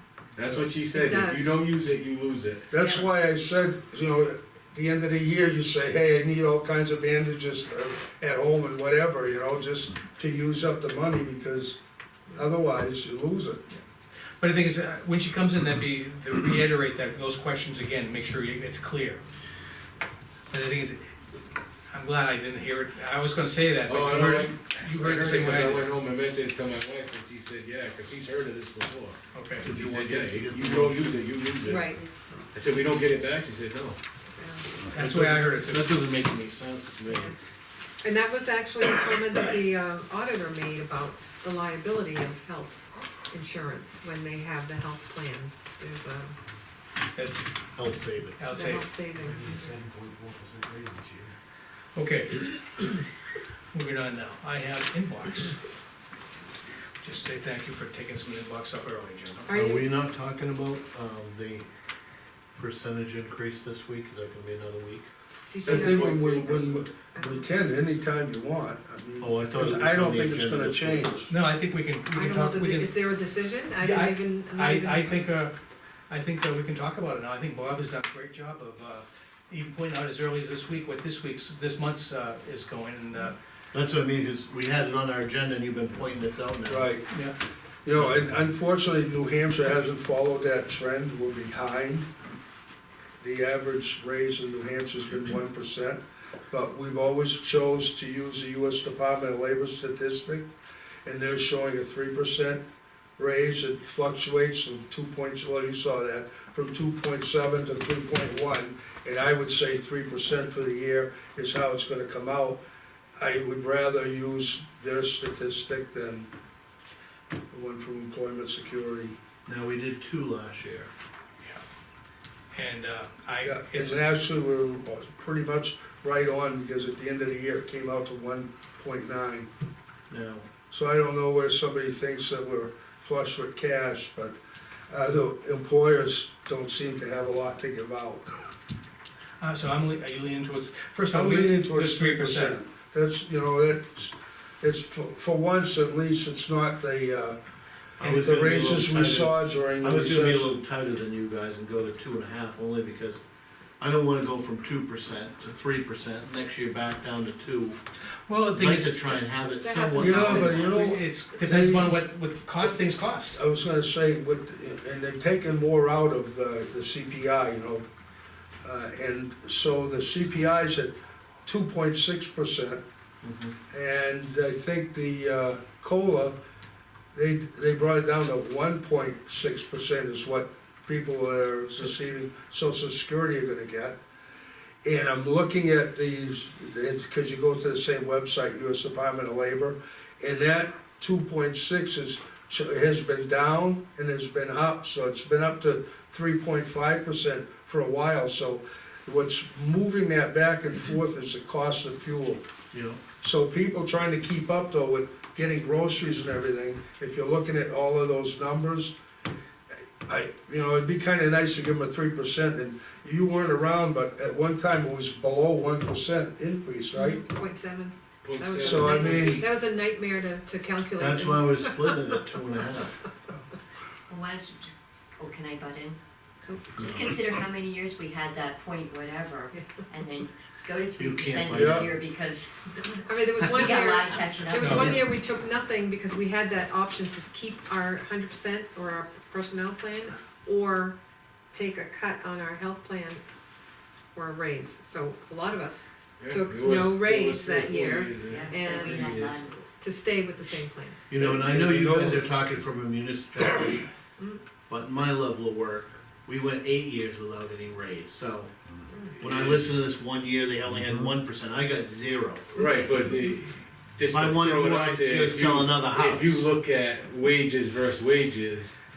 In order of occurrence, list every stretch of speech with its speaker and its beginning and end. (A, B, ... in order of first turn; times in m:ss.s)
0:00.4-0:02.7 A
0:00.9-0:01.5 B
0:02.7-0:11.8 C
0:02.7-0:03.0 B
0:12.3-0:13.6 C
0:14.4-0:19.2 D
0:20.5-0:21.1 D
0:21.9-0:25.9 D
0:23.8-0:31.9 A
0:29.3-0:29.7 D
0:29.6-0:31.5 E
0:31.6-0:32.0 B
0:32.5-0:34.0 A
0:34.3-0:34.7 B
0:34.9-0:36.0 D
0:34.9-0:37.3 E
0:37.1-0:37.3 B
0:38.0-0:46.3 B
0:47.2-0:47.4 D
0:47.8-0:48.4 E
0:48.4-0:49.1 D
0:48.5-0:49.8 B
0:49.2-0:51.3 A
0:52.0-0:53.0 D
0:53.7-0:55.6 D
0:57.0-0:59.5 D
0:59.4-0:59.9 B
0:59.5-1:01.7 E
1:02.6-1:05.1 E
1:05.4-1:06.3 B
1:05.6-1:06.9 A
1:05.6-1:11.3 C
1:07.0-1:07.5 B
1:09.2-1:11.2 E
1:11.3-1:13.0 D
1:12.1-1:15.2 B
1:13.8-1:15.5 D
1:16.1-1:23.4 D
1:23.7-1:26.9 E
1:26.7-1:27.0 C
1:27.1-1:27.3 D
1:27.8-1:32.1 C
1:28.0-1:28.2 E
1:33.2-1:40.5 C
1:41.0-1:42.6 C
1:43.2-1:52.6 C
1:53.2-1:56.3 C
1:57.5-1:59.2 C
1:59.4-2:00.9 E
2:02.5-2:04.0 D
2:03.4-2:09.5 C
2:10.1-2:10.5 E
2:10.7-2:14.4 C
2:14.9-2:18.3 C
2:19.4-2:22.6 D
2:21.1-2:27.4 C
2:28.0-2:33.2 E
2:28.0-2:30.5 C
2:33.8-2:37.8 E
2:38.3-2:39.2 D
2:38.5-2:40.7 E
2:39.6-2:40.8 B
2:39.8-2:43.4 D
2:40.0-2:41.9 C
2:43.3-2:47.8 C
2:48.6-2:50.9 C
2:51.4-2:52.8 C
2:53.2-2:53.6 E
2:53.7-2:56.4 C
2:57.1-3:04.0 C
3:04.8-3:22.4 C
3:22.7-3:23.0 E
3:23.2-3:28.9 C
3:30.0-3:37.2 C
3:36.9-3:41.9 B
3:38.2-3:39.5 A
3:38.6-3:39.4 C
3:40.9-3:43.0 E
3:44.1-3:46.0 F
3:46.5-3:46.8 B
3:46.8-3:52.8 F
3:46.8-3:47.1 E
3:49.5-3:49.8 B
3:51.0-3:52.0 E
3:51.5-3:51.9 C
3:53.0-4:01.0 B
3:53.4-3:55.0 F
3:54.5-3:54.9 D
3:54.7-3:55.0 E
4:01.5-4:03.2 B
4:04.1-4:11.0 B
4:06.2-4:09.4 A
4:08.3-4:09.6 F
4:11.1-4:13.9 E
4:11.1-4:12.3 C
4:14.7-4:18.5 E
4:19.2-4:22.6 E
4:19.2-4:19.5 A
4:22.5-4:28.8 A
4:24.1-4:26.4 E